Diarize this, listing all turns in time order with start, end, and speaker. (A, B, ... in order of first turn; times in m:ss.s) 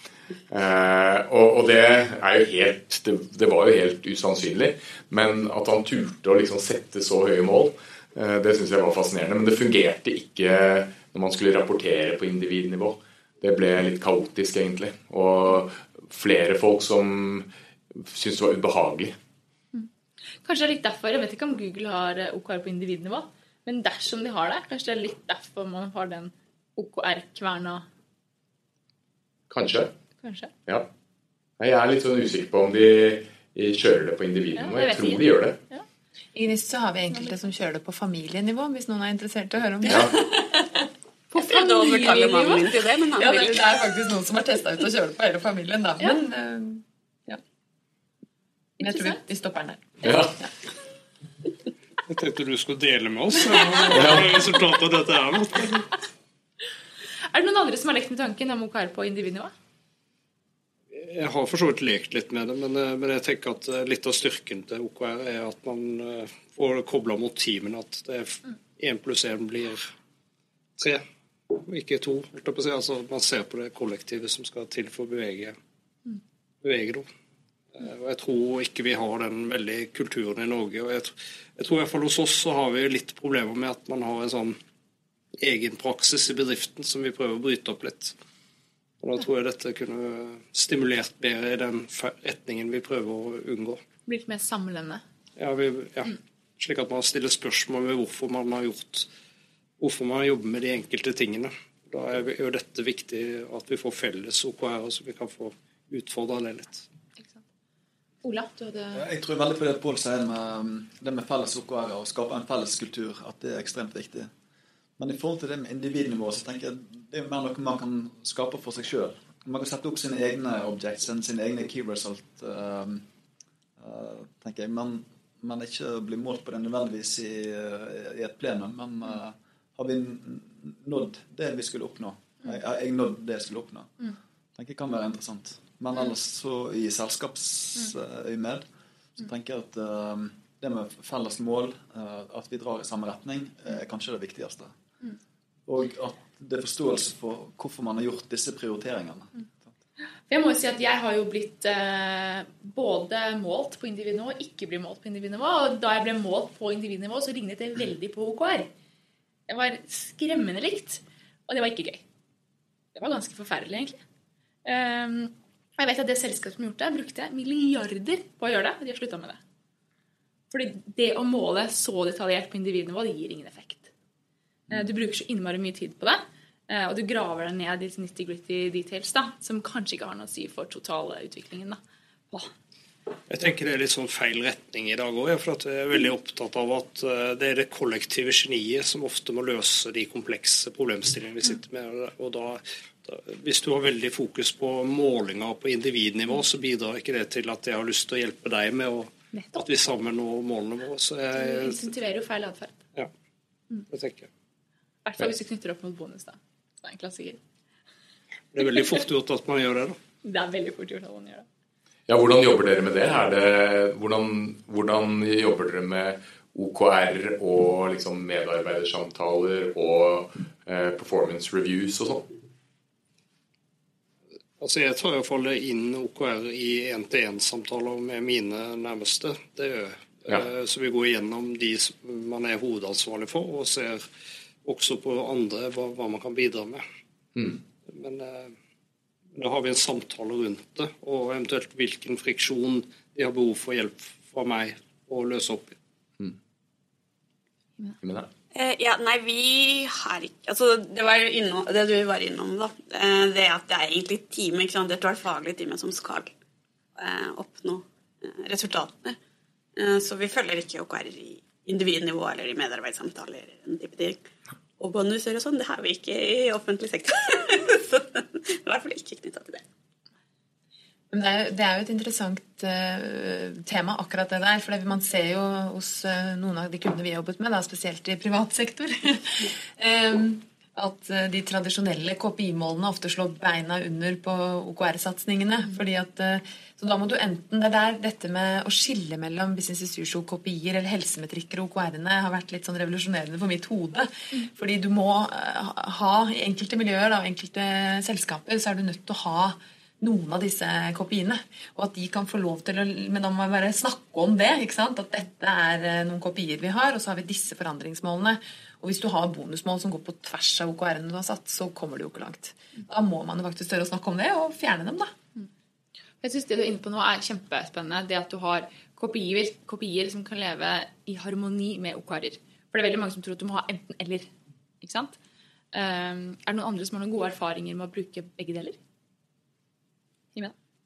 0:00.5-0:17.5 A
0:18.0-0:19.1 A
0:20.4-0:27.8 B
0:29.5-0:29.9 A
0:30.2-0:30.5 B
0:31.6-0:35.6 A
0:34.6-0:35.8 B
0:36.3-0:40.7 C
0:39.9-0:40.1 A
0:41.3-0:42.7 B
0:41.3-0:43.6 D
0:43.2-0:47.4 C
0:48.8-0:50.2 C
0:48.8-0:49.2 B
0:50.0-0:50.4 A
0:52.1-0:55.9 E
0:53.9-0:54.3 A
0:57.3-0:59.5 B
1:00.9-1:09.9 E
1:10.8-1:15.6 E
1:16.6-1:17.1 E
1:17.7-1:24.6 E
1:25.4-1:28.2 E
1:29.0-1:33.8 E
1:34.1-1:35.0 B
1:35.4-1:39.1 E
1:39.8-1:46.8 E
1:48.2-1:49.0 B
1:48.9-1:54.3 F
1:55.0-2:03.0 F
2:03.8-2:18.6 F
2:19.2-2:24.7 F
2:25.6-2:29.4 F
2:30.3-2:38.7 B
2:39.5-2:42.0 B
2:42.9-2:44.0 B
2:44.6-2:49.4 B
2:50.5-2:53.9 B
2:54.7-3:01.8 B
3:03.3-3:21.9 E
3:19.3-3:19.6 B
3:21.3-3:22.8 B
3:23.9-3:24.3 E
3:25.0-3:27.4 B
3:28.5-3:30.0 E
3:30.2-3:31.4 B
3:32.1-3:42.3 A
3:44.6-3:54.0 E
3:54.6-3:56.8 E
3:57.9-3:58.5 E
3:59.3-4:05.8 E
4:08.0-4:08.3 A
4:08.5-4:16.3 D
4:17.0-4:19.2 D
4:19.8-4:29.6 D
4:31.1-5:15.1 C
5:16.2-5:24.3 B
5:24.8-5:25.2 B
5:25.7-5:28.8 B